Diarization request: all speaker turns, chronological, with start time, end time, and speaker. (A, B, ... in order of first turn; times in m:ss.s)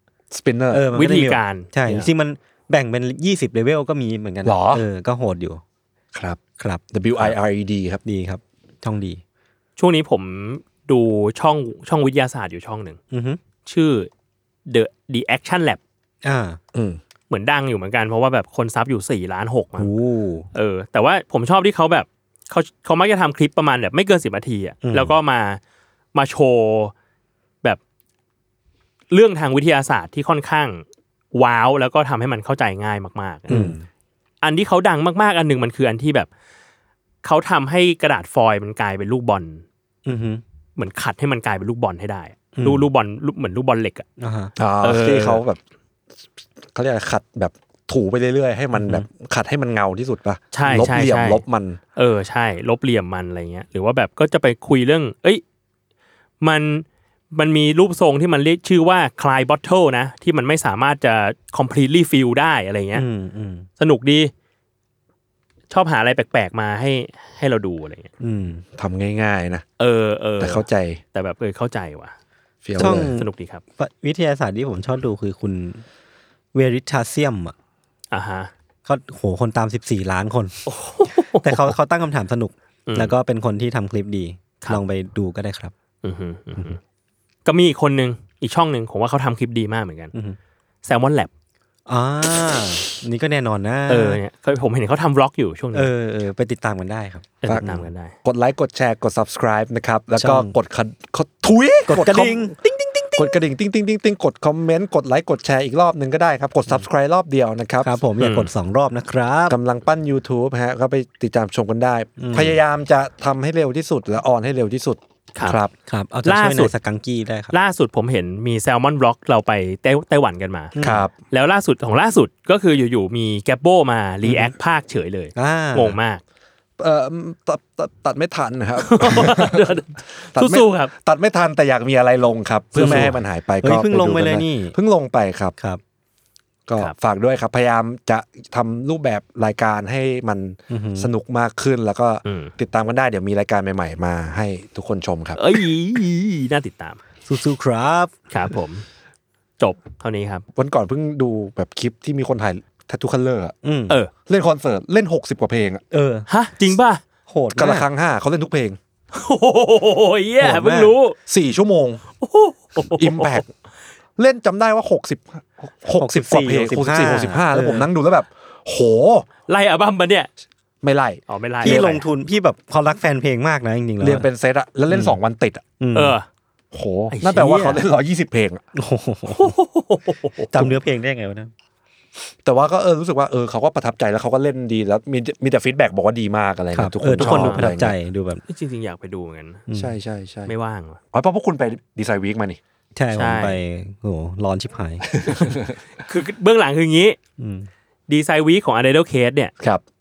0:00.3-0:00.8 A
0:00.7-0:05.6 B
0:00.9-0:02.1 C
0:04.4-0:04.8 A
0:06.1-0:06.4 A
0:06.6-0:07.3 B
0:06.9-0:08.0 A
0:08.0-0:09.2 B
0:09.8-0:13.0 C
0:13.1-0:13.4 B
0:13.6-0:14.1 C
0:14.7-0:15.8 C
0:16.2-0:16.6 B
0:16.7-0:17.0 A
0:17.3-0:19.9 C
0:19.8-0:20.5 B
0:20.5-0:25.6 C
0:24.8-0:25.2 B
0:26.1-0:26.9 C
0:29.1-0:33.6 C
0:33.5-0:33.7 B
0:33.5-0:33.8 A
0:34.4-0:36.3 C
0:37.2-0:39.6 C
0:40.0-0:40.4 B
0:40.8-0:44.1 C
0:42.5-0:42.9 B
0:44.2-0:44.5 B
0:44.6-0:45.6 A
0:44.8-0:45.4 C
0:46.7-0:51.8 A
0:50.5-0:51.4 C
0:52.0-0:55.4 C
0:56.4-1:03.0 C
1:02.9-1:03.7 B
1:03.8-1:04.3 C
1:05.7-1:08.1 C
1:08.2-1:08.6 B
1:08.8-1:09.6 A
1:09.8-1:12.1 C
1:10.4-1:11.0 A
1:12.6-1:13.1 A
1:12.8-1:15.8 B
1:12.8-1:13.6 C
1:16.5-1:17.5 B
1:18.1-1:18.5 C
1:18.8-1:20.7 B
1:20.7-1:21.7 C
1:21.4-1:25.7 B
1:22.9-1:23.1 C
1:26.0-1:26.8 C
1:27.4-1:30.1 C
1:30.8-1:31.3 C
1:31.9-1:34.2 B
1:33.9-1:35.9 C
1:35.7-1:37.8 B
1:37.4-1:38.1 C
1:38.2-1:42.6 A
1:40.2-1:40.5 B
1:41.9-1:43.4 B
1:43.2-1:47.9 A
1:47.8-1:49.6 B
1:48.2-1:48.5 C
1:49.5-1:55.7 A
1:52.2-1:52.6 B
1:55.9-1:57.6 B
1:56.2-1:56.7 C
1:57.5-2:00.7 C
2:00.8-2:01.1 B
2:00.8-2:01.1 A
2:01.3-2:06.2 C
2:04.2-2:04.5 B
2:05.4-2:06.0 B
2:06.8-2:09.8 A
2:08.8-2:10.9 C
2:10.3-2:15.5 A
2:12.7-2:14.7 B
2:12.8-2:13.1 C
2:16.7-2:25.4 A
2:20.7-2:21.1 B
2:22.2-2:22.5 C
2:25.4-2:27.0 C
2:27.3-2:28.1 B
2:28.3-2:28.8 C
2:29.6-2:30.4 C
2:30.5-2:33.5 A
2:33.6-2:34.0 B
2:34.3-2:35.8 A
2:35.9-2:36.2 B
2:36.3-2:37.0 C
2:37.3-2:37.9 B
2:37.6-2:38.8 A
2:39.1-2:41.2 C
2:40.4-2:40.9 B
2:41.3-2:42.0 A
2:42.2-2:43.4 C
2:42.9-2:43.5 A
2:44.2-2:49.2 A
2:45.9-2:47.9 B
2:49.5-2:50.3 C
2:50.8-2:51.9 A
2:51.3-2:52.0 C
2:51.6-2:54.2 B
2:54.0-2:55.7 A
2:54.9-2:55.2 B
2:55.8-2:56.2 B
2:55.9-2:56.2 C
2:56.7-2:58.6 A
2:57.1-2:57.8 C
2:58.7-2:59.6 B
2:59.3-3:00.7 C
3:00.5-3:01.5 B
3:02.4-3:07.9 A
3:06.7-3:08.4 B
3:07.2-3:07.7 C
3:08.5-3:09.7 C
3:09.7-3:10.0 B
3:09.7-3:10.5 A
3:10.4-3:11.0 C
3:11.1-3:12.6 A
3:12.9-3:15.3 B
3:13.1-3:13.6 C
3:15.1-3:15.7 A
3:16.0-3:17.2 C
3:17.4-3:17.7 B
3:18.1-3:19.5 C